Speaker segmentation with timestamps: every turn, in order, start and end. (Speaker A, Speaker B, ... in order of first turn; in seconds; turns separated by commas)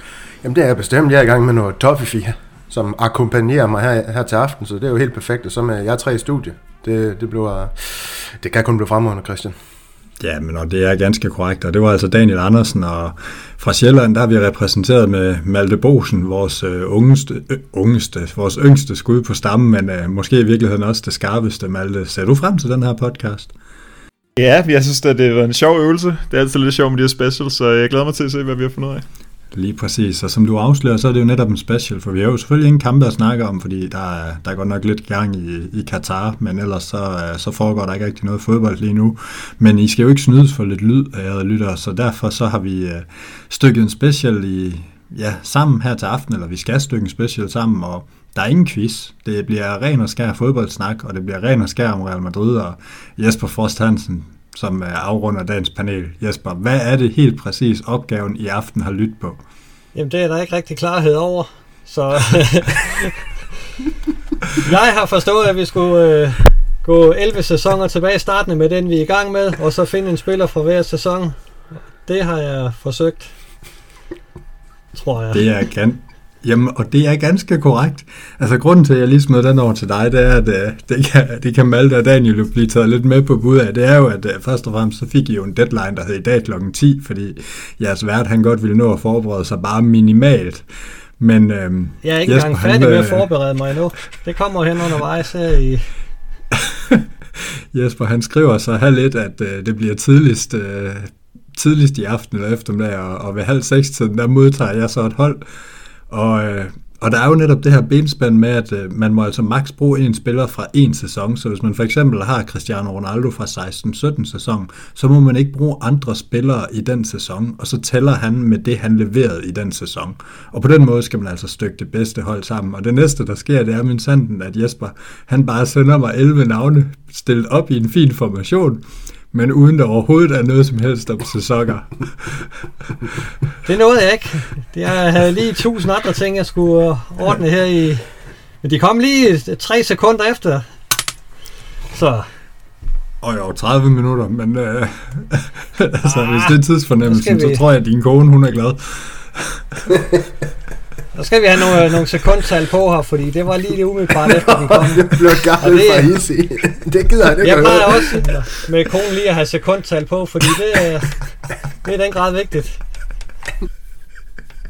Speaker A: 0.4-9.6, Speaker B: 10.2-23.5, Speaker C: 24.4-29.1, Speaker B: 29.5-59.4, Speaker D: 59.9-63.2, Speaker D: 64.5-71.3, Speaker D: 72.0-73.3, Speaker D: 75.0-75.4, Speaker B: 75.3-90.7, Speaker B: 91.2-93.3, Speaker D: 92.0-95.9, Speaker B: 96.5-105.4, Speaker B: 106.1-133.2, Speaker D: 133.7-138.1, Speaker D: 138.6-140.7, Speaker D: 141.9-142.3, Speaker B: 143.2-149.8, Speaker D: 146.1-147.6, Speaker D: 151.1-156.2, Speaker A: 154.5-158.2, Speaker D: 157.4-161.2, Speaker D: 161.8-162.8